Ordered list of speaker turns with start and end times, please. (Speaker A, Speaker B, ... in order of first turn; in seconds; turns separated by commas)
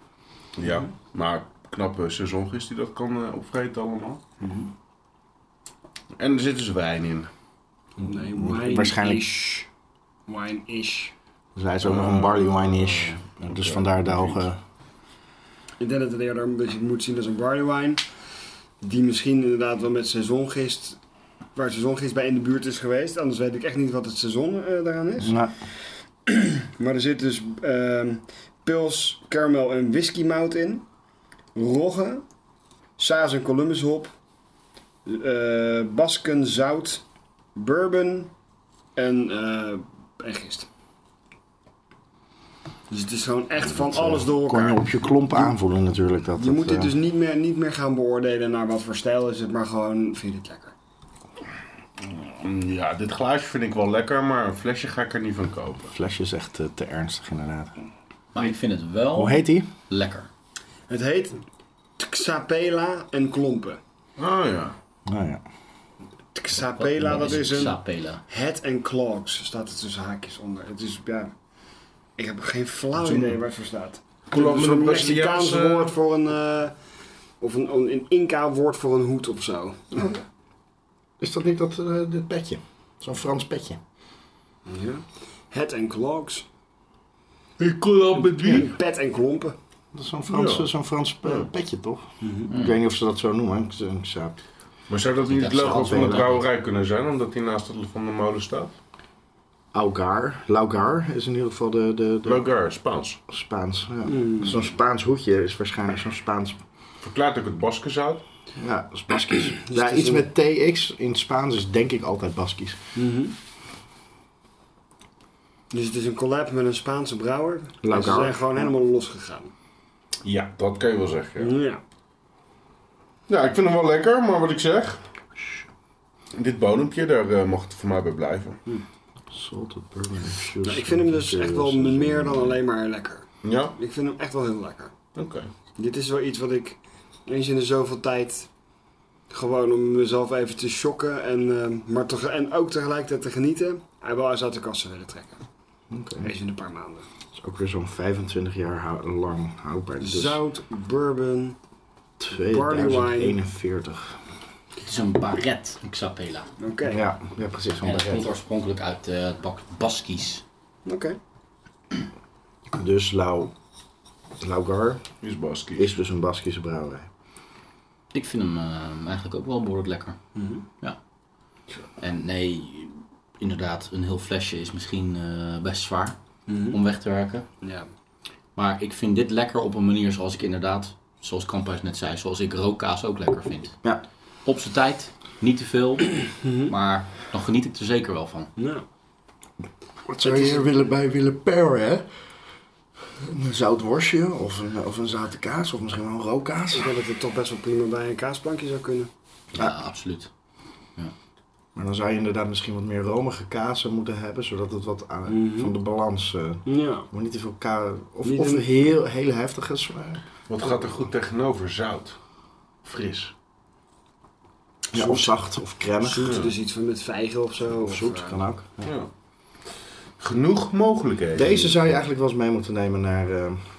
Speaker A: 0.6-4.2, Speaker B: 4.4-4.7, Speaker A: 6.2-7.3, Speaker B: 8.0-9.7, Speaker C: 8.5-9.2, Speaker B: 10.3-11.1, Speaker C: 11.6-14.6, Speaker A: 11.8-14.4, Speaker B: 15.8-18.0, Speaker B: 18.8-21.0, Speaker B: 21.5-25.4, Speaker C: 25.2-25.5, Speaker B: 26.3-30.8, Speaker B: 31.5-32.2, Speaker B: 33.0-34.1, Speaker B: 35.0-37.0, Speaker B: 37.5-38.3, Speaker B: 39.0-40.7, Speaker B: 42.9-45.5, Speaker C: 43.8-46.9, Speaker B: 46.4-50.7, Speaker A: 52.0-55.9, Speaker C: 55.9-57.7, Speaker D: 58.3-60.3, Speaker C: 59.1-59.7, Speaker B: 60.9-61.4, Speaker B: 62.0-63.8, Speaker A: 64.2-64.8, Speaker C: 65.1-65.4, Speaker B: 66.3-71.3, Speaker D: 66.6-68.2, Speaker B: 72.2-76.7, Speaker A: 74.3-75.9, Speaker B: 77.4-80.2, Speaker C: 81.2-83.8, Speaker B: 84.7-86.4, Speaker A: 87.6-88.7, Speaker B: 88.2-89.5, Speaker C: 89.9-94.4, Speaker A: 90.3-90.7, Speaker B: 92.2-92.5, Speaker D: 92.5-92.8, Speaker A: 94.9-98.7, Speaker D: 95.3-96.4, Speaker C: 95.6-96.3, Speaker C: 99.7-102.4, Speaker A: 102.2-103.2, Speaker C: 103.3-106.6, Speaker B: 104.0-104.7, Speaker A: 107.0-108.2, Speaker C: 108.6-112.8, Speaker B: 109.4-110.3, Speaker B: 112.9-113.3, Speaker B: 115.7-119.5, Speaker C: 117.8-118.3, Speaker A: 120.2-121.5, Speaker B: 121.4-121.8, Speaker A: 123.3-125.0, Speaker A: 126.3-128.6, Speaker C: 129.3-132.5, Speaker B: 130.6-134.9, Speaker A: 133.4-133.7, Speaker A: 135.1-135.5, Speaker B: 135.8-138.5, Speaker B: 139.3-145.4, Speaker C: 145.9-146.3, Speaker B: 146.2-147.1, Speaker C: 147.3-150.4, Speaker B: 150.0-151.6, Speaker C: 152.2-154.2, Speaker B: 152.3-153.4, Speaker D: 154.8-156.5, Speaker B: 156.6-157.0, Speaker C: 156.9-158.3, Speaker D: 157.8-160.4, Speaker B: 160.8-161.2, Speaker C: 162.8-163.5, Speaker C: 164.4-165.0, Speaker A: 165.2-165.9, Speaker C: 165.8-167.1, Speaker D: 168.1-170.2, Speaker B: 170.3-170.6, Speaker D: 172.0-176.2, Speaker B: 176.5-176.8, Speaker D: 176.7-177.4, Speaker B: 177.6-177.8, Speaker D: 178.6-183.8, Speaker D: 184.4-188.5, Speaker B: 186.4-186.7, Speaker B: 188.6-188.8, Speaker C: 190.1-192.0, Speaker B: 190.2-190.7, Speaker C: 193.2-196.9, Speaker B: 196.7-199.1, Speaker D: 199.5-200.3, Speaker C: 201.7-210.2, Speaker B: 205.3-205.7, Speaker B: 206.7-207.1, Speaker B: 208.2-208.7, Speaker A: 210.5-212.2, Speaker A: 212.8-213.3, Speaker B: 214.9-215.4, Speaker C: 214.9-216.4, Speaker B: 216.0-218.4, Speaker A: 216.2-216.5, Speaker C: 217.8-218.9, Speaker A: 218.8-219.1, Speaker A: 220.2-221.9, Speaker C: 221.3-223.6